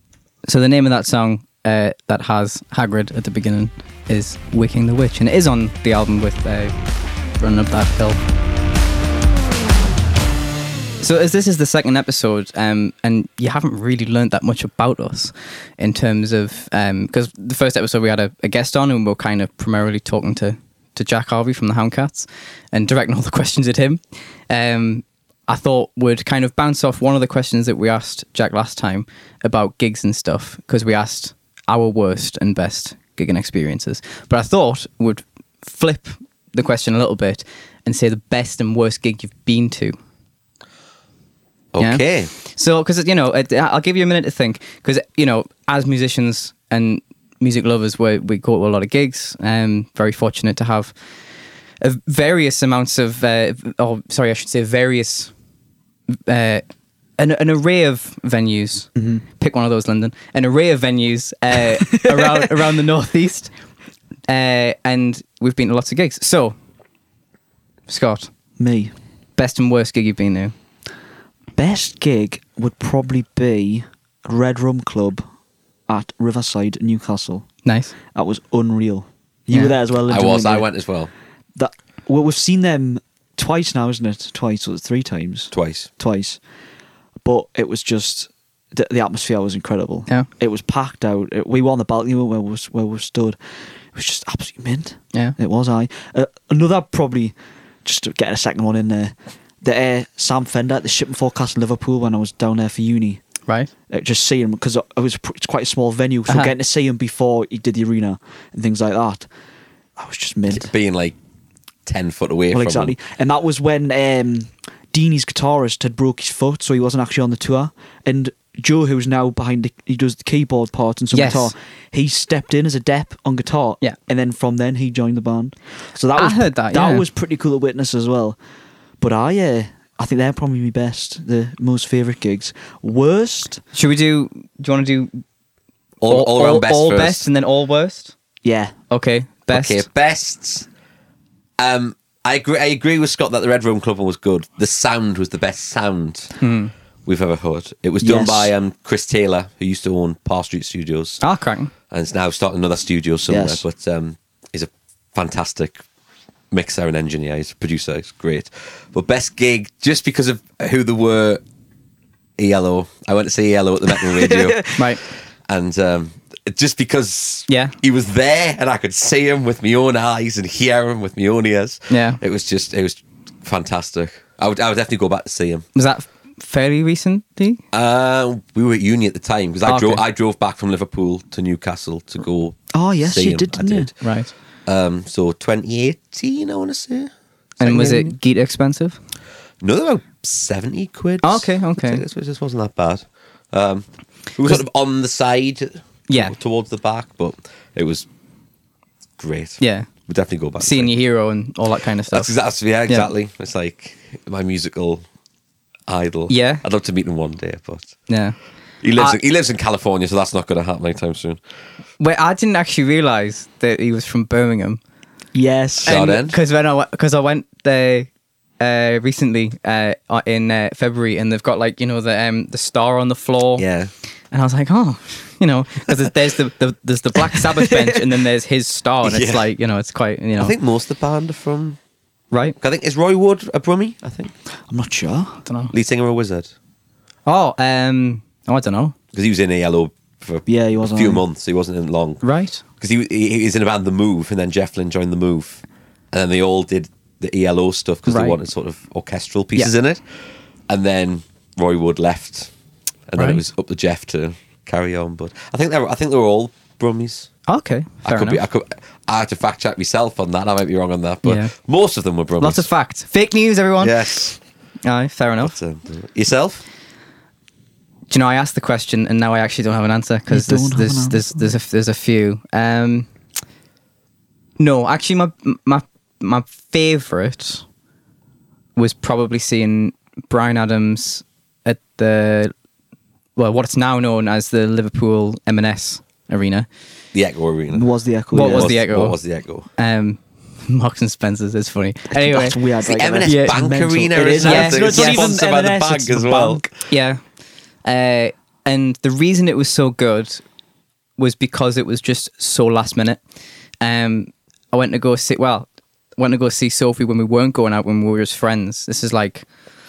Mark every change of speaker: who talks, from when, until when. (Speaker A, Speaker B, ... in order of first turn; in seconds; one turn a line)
Speaker A: 0.5-6.7
Speaker A: 7.4-8.2
Speaker A: 11.0-40.0
Speaker B: 41.7-42.3
Speaker A: 41.8-50.9
Speaker A: 51.8-55.3
Speaker A: 56.1-56.6
Speaker A: 57.2-63.5
Speaker C: 59.0-59.2
Speaker C: 61.9-62.4
Speaker A: 64.3-66.5
Speaker A: 67.9-68.3
Speaker C: 68.6-68.9
Speaker A: 69.4-70.5
Speaker C: 71.6-75.2
Speaker C: 75.9-77.5
Speaker A: 77.6-77.9
Speaker C: 78.1-80.7
Speaker B: 80.1-81.1
Speaker C: 81.5-86.4
Speaker B: 85.5-85.9
Speaker C: 87.2-93.4
Speaker C: 93.9-97.3
Speaker C: 97.8-103.2
Speaker C: 103.9-109.3
Speaker A: 106.3-106.5
Speaker C: 110.0-110.7
Speaker B: 110.5-111.2
Speaker B: 111.8-113.0
Speaker C: 112.5-128.4
Speaker A: 121.1-121.5
Speaker A: 126.2-127.0
Speaker C: 129.0-133.6
Speaker A: 133.7-135.2
Speaker B: 136.0-137.2
Speaker A: 136.1-138.1
Speaker C: 138.4-138.7
Speaker A: 138.9-139.8
Speaker B: 139.5-140.7
Speaker B: 141.6-146.3
Speaker A: 146.4-146.7
Speaker B: 147.1-151.2
Speaker C: 148.0-148.5
Speaker A: 151.2-151.7
Speaker B: 151.9-155.8
Speaker C: 153.3-153.6
Speaker B: 156.5-161.4
Speaker B: 162.4-164.7
Speaker C: 164.1-164.7
Speaker A: 164.8-165.0
Speaker B: 165.5-175.7
Speaker A: 167.5-167.7
Speaker A: 171.9-172.2
Speaker A: 175.7-177.6
Speaker B: 177.7-183.9
Speaker A: 179.7-180.0
Speaker C: 182.7-183.9
Speaker A: 184.0-184.3
Speaker B: 184.7-188.1
Speaker A: 187.6-189.0
Speaker B: 189.6-198.1
Speaker A: 191.2-192.0
Speaker A: 196.1-196.3
Speaker B: 199.2-200.9
Speaker A: 199.6-199.9
Speaker A: 200.6-202.3
Speaker B: 202.1-205.0
Speaker B: 205.9-207.9
Speaker A: 206.3-206.6
Speaker A: 208.1-208.3
Speaker B: 208.8-211.4
Speaker A: 212.0-214.8
Speaker C: 215.3-216.0
Speaker B: 215.8-216.4
Speaker A: 215.8-223.6
Speaker B: 223.6-223.9
Speaker A: 224.3-230.5
Speaker B: 229.0-229.5
Speaker B: 230.4-231.8
Speaker B: 232.6-234.3
Speaker C: 234.7-235.4
Speaker A: 235.4-235.7
Speaker B: 235.7-236.5
Speaker A: 237.2-238.9
Speaker B: 239.1-242.2
Speaker C: 240.4-241.2
Speaker A: 242.2-242.6
Speaker B: 242.8-250.0
Speaker A: 248.1-248.4
Speaker B: 250.7-252.5
Speaker B: 253.1-257.3
Speaker A: 253.2-253.4
Speaker A: 257.5-258.4
Speaker B: 258.0-262.7
Speaker A: 261.2-261.5
Speaker A: 262.4-264.1
Speaker B: 263.8-264.4
Speaker A: 264.8-265.5
Speaker B: 265.4-266.6
Speaker A: 268.1-273.1
Speaker C: 270.3-271.5
Speaker A: 274.6-277.6
Speaker A: 278.8-282.5
Speaker A: 283.4-286.7
Speaker B: 287.1-287.9
Speaker C: 287.7-288.7
Speaker A: 288.3-289.2
Speaker B: 288.4-289.7
Speaker A: 289.7-292.6
Speaker C: 292.1-296.7
Speaker B: 292.8-296.6
Speaker A: 293.2-293.6
Speaker A: 294.4-295.3
Speaker A: 296.9-297.2
Speaker A: 297.8-300.4
Speaker A: 301.2-303.2
Speaker A: 303.8-309.4